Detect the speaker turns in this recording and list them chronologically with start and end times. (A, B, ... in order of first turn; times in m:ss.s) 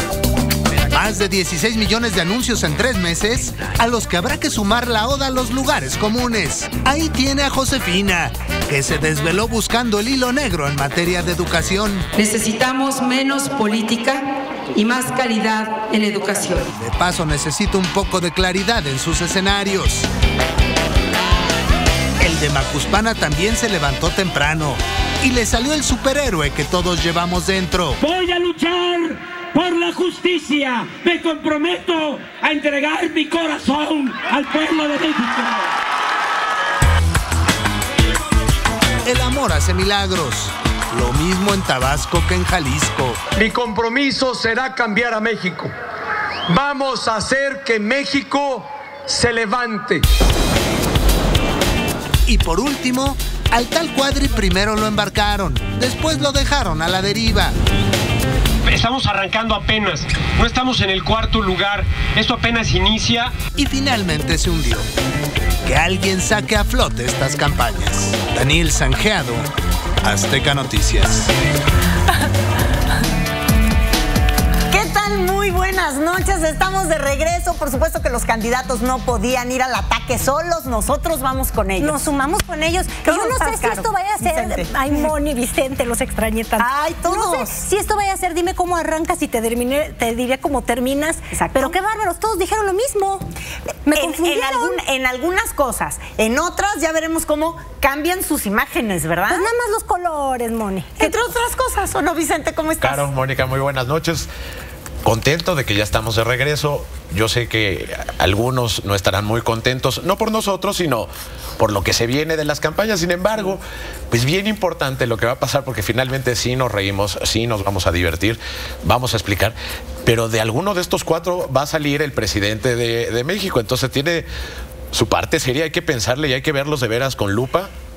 0:00.9-0:12.1 A
0:12.2-0:16.7 B
0:16.7-0:20.1 A
0:22.2-0:28.0 A
0:28.0-0:35.6 C
0:39.0-0:43.2 A
0:43.4-0:45.7 D
0:46.5-0:50.0 D
0:52.3-0:57.5 A
0:58.6-1:03.4 E
1:03.6-1:04.9 A
1:05.6-1:09.5 A
1:10.0-1:11.3 A
1:14.7-1:22.0 F
1:21.8-1:33.2 G
1:23.0-1:24.7 F
1:26.6-1:27.5 F
1:31.3-1:31.7 F
1:33.8-1:34.8 G
1:33.9-1:39.4 F
1:39.3-1:41.2 G
1:41.0-1:43.1 F
1:42.8-1:44.3 H
1:45.0-2:04.3 H
2:04.9-2:07.7 H